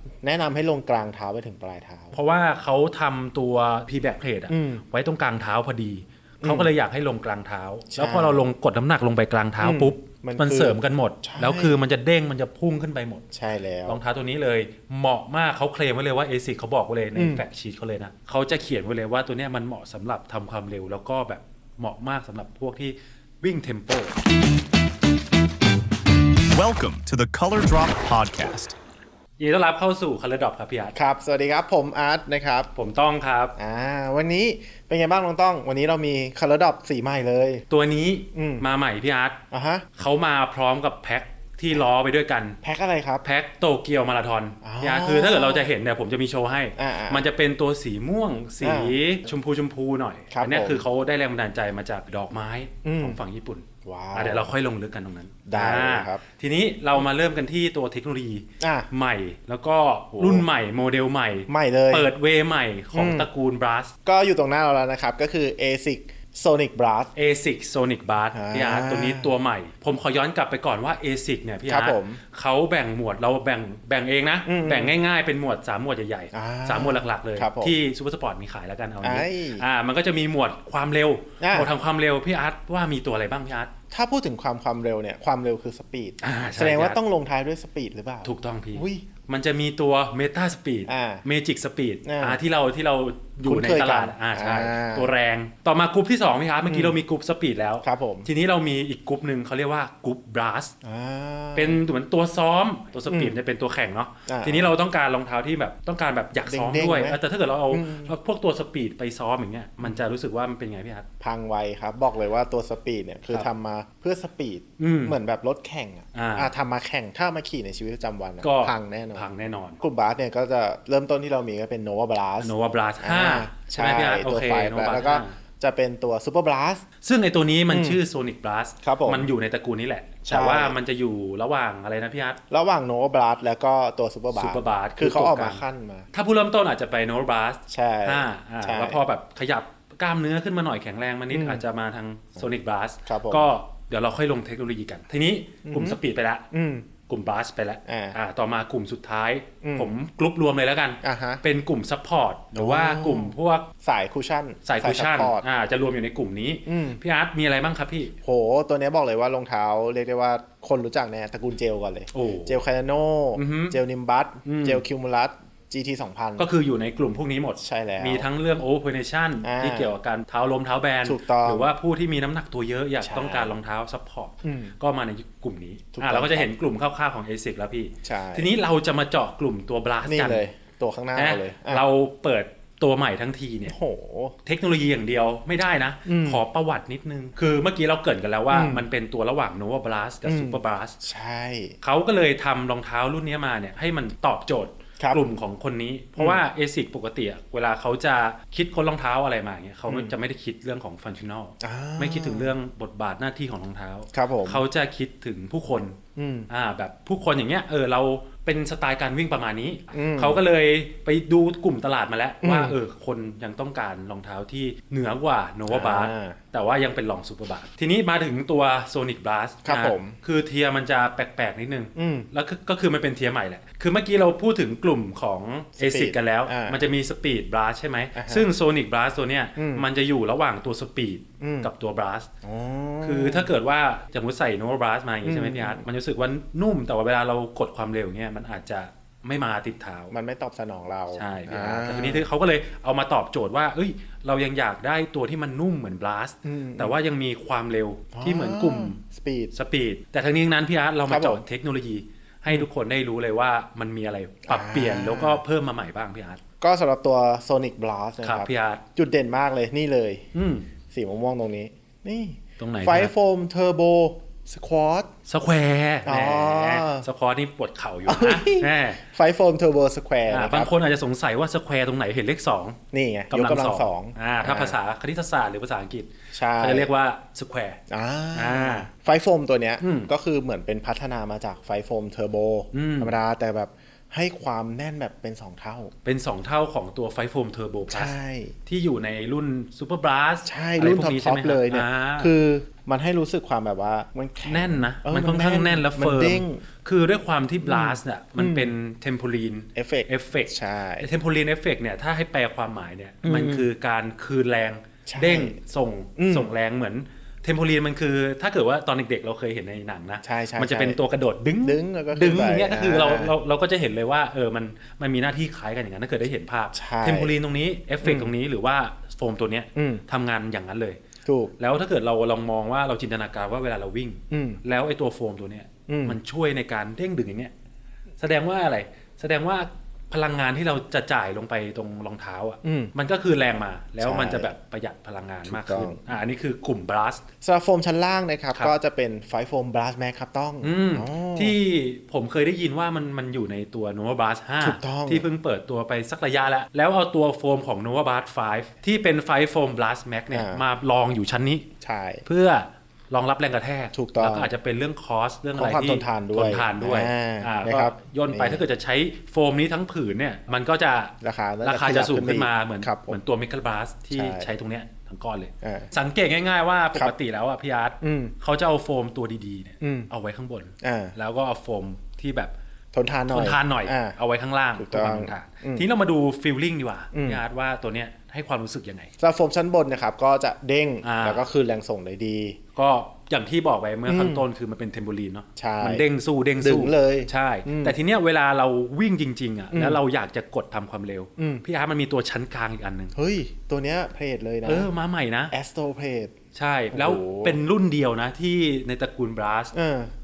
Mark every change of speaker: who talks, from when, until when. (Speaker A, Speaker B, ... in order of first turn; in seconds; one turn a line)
Speaker A: 0.2-2.1
Speaker B: 2.1-13.2
Speaker A: 4.5-4.8
Speaker A: 6.4-6.7
Speaker A: 7.9-8.5
Speaker A: 9.6-11.8
Speaker A: 13.3-14.0
Speaker B: 13.9-24.2
Speaker A: 17.1-17.4
Speaker C: 26.5-28.7
Speaker B: 29.4-30.9
Speaker A: 30.9-32.7
Speaker B: 32.7-33.5
Speaker A: 33.6-37.6
Speaker B: 37.7-39.4
Speaker A: 38.3-38.6
Speaker A: 39.5-39.9
Speaker B: 40.0-42.6
Speaker A: 42.6-43.2
Speaker B: 43.2-63.9
Speaker A: 44.6-45.7
Speaker A: 46.8-47.2
Speaker A: 48.6-48.9
Speaker A: 50.3-50.8
Speaker A: 52.8-53.2
Speaker A: 53.8-54.5
Speaker A: 55.5-56.2
Speaker A: 58.6-58.9
Speaker A: 60.2-60.5
Speaker A: 61.5-62.1
Speaker A: 62.9-63.3
Speaker A: 64.0-67.1
Speaker B: 67.1-83.7
Speaker A: 68.3-69.3
Speaker A: 71.7-72.2
Speaker A: 74.5-75.0
Speaker A: 76.3-77.8
Speaker A: 79.0-79.6
Speaker A: 81.4-81.7
Speaker A: 83.9-89.0
Speaker B: 86.2-87.0
Speaker B: 88.2-100.7
Speaker A: 90.9-91.2
Speaker A: 92.0-92.4
Speaker A: 93.5-95.1
Speaker A: 96.7-97.0
Speaker A: 97.8-98.3
Speaker A: 100.8-101.8
Speaker B: 101.5-111.0
Speaker A: 103.1-103.4
Speaker A: 104.3-104.7
Speaker A: 106.5-107.2
Speaker A: 107.7-108.1
Speaker A: 111.2-119.3
Speaker B: 114.8-115.2
Speaker B: 116.1-116.5
Speaker B: 118.4-119.8
Speaker A: 119.8-126.8
Speaker B: 122.4-125.4
Speaker B: 127.0-132.4
Speaker A: 127.7-128.0
Speaker A: 128.8-129.3
Speaker A: 130.2-130.8
Speaker A: 132.5-136.1
Speaker B: 134.3-135.6
Speaker B: 136.1-146.4
Speaker A: 137.7-139.0
Speaker A: 141.3-141.6
Speaker A: 143.1-143.5
Speaker A: 145.6-146.0
Speaker A: 146.5-146.9
Speaker B: 147.1-153.7
Speaker A: 147.9-148.2
Speaker A: 149.6-149.9
Speaker A: 151.0-151.4
Speaker A: 152.5-155.4
Speaker B: 154.6-158.1
Speaker A: 156.7-157.0
Speaker A: 158.2-166.5
Speaker B: 162.1-162.6
Speaker B: 163.3-163.8
Speaker B: 164.4-164.8
Speaker B: 166.4-180.4
Speaker A: 167.6-168.3
Speaker A: 169.4-169.9
Speaker A: 171.0-171.7
Speaker A: 173.0-173.6
Speaker A: 174.4-174.7
Speaker A: 175.9-176.5
Speaker A: 178.0-178.5
Speaker A: 180.0-181.8
Speaker B: 181.2-183.7
Speaker A: 183.7-184.3
Speaker B: 184.4-190.9
Speaker A: 186.1-186.4
Speaker A: 188.5-188.8
Speaker A: 190.2-191.8
Speaker B: 191.8-206.0
Speaker A: 199.9-200.1
Speaker A: 201.6-202.5
Speaker A: 204.1-204.6
Speaker A: 206.2-206.5
Speaker B: 206.5-232.3
Speaker A: 209.9-210.4
Speaker A: 212.4-212.8
Speaker A: 215.7-216.4
Speaker A: 219.6-220.2
Speaker A: 221.9-222.3
Speaker A: 225.8-226.8
Speaker A: 228.1-228.5
Speaker A: 229.6-229.8
Speaker A: 231.4-231.7
Speaker A: 232.4-233.5
Speaker B: 233.0-240.1
Speaker A: 235.2-235.8
Speaker A: 240.1-242.3
Speaker B: 241.1-249.0
Speaker A: 246.4-247.0
Speaker A: 248.1-249.5
Speaker B: 249.5-256.4
Speaker A: 251.1-251.4
Speaker A: 254.5-255.4
Speaker A: 256.6-260.2
Speaker B: 258.2-258.8
Speaker B: 260.3-260.7
Speaker A: 260.9-265.1
Speaker B: 262.6-263.1
Speaker B: 265.3-269.0
Speaker A: 266.0-267.1
Speaker A: 268.1-270.7
Speaker B: 270.3-272.8
Speaker A: 272.9-274.8
Speaker B: 273.3-277.8
Speaker A: 276.3-276.9
Speaker A: 277.9-285.9
Speaker B: 278.3-278.9
Speaker B: 279.8-280.1
Speaker B: 282.7-283.1
Speaker B: 286.0-292.3
Speaker A: 287.9-288.6
Speaker A: 290.4-296.6
Speaker B: 294.4-321.0
Speaker A: 297.6-298.7
Speaker A: 299.7-301.1
Speaker A: 303.2-303.7
Speaker A: 305.1-305.6
Speaker A: 306.2-306.5
Speaker A: 310.2-311.0
Speaker A: 311.6-313.3
Speaker A: 316.7-317.3
Speaker A: 318.0-318.3
Speaker A: 319.8-320.0
Speaker A: 321.2-321.5
Speaker B: 321.6-327.5
Speaker A: 324.3-324.6
Speaker A: 325.9-326.2
Speaker B: 328.2-337.2
Speaker A: 332.6-332.9
Speaker A: 334.0-334.5
Speaker A: 335.4-336.0
Speaker A: 337.4-341.6
Speaker B: 340.6-351.6
Speaker A: 344.6-345.3
Speaker A: 350.3-350.6
Speaker A: 351.8-352.2
Speaker B: 352.2-372.5
Speaker A: 353.9-354.5
Speaker A: 355.6-358.6
Speaker A: 361.2-363.2
Speaker A: 364.1-364.5
Speaker A: 365.6-365.9
Speaker A: 368.0-368.3
Speaker A: 369.8-370.1
Speaker A: 370.8-371.1
Speaker A: 372.9-374.2
Speaker B: 373.3-379.1
Speaker A: 374.8-375.9
Speaker A: 377.1-377.4
Speaker A: 379.2-382.6
Speaker B: 381.0-381.4
Speaker B: 382.7-393.1
Speaker A: 384.1-384.4
Speaker A: 385.6-386.0
Speaker A: 386.6-387.9
Speaker A: 389.7-390.0
Speaker A: 391.4-391.6
Speaker A: 393.1-394.9
Speaker B: 394.6-395.5
Speaker A: 395.5-396.3
Speaker B: 396.5-399.7
Speaker A: 396.9-397.6
Speaker A: 399.7-400.1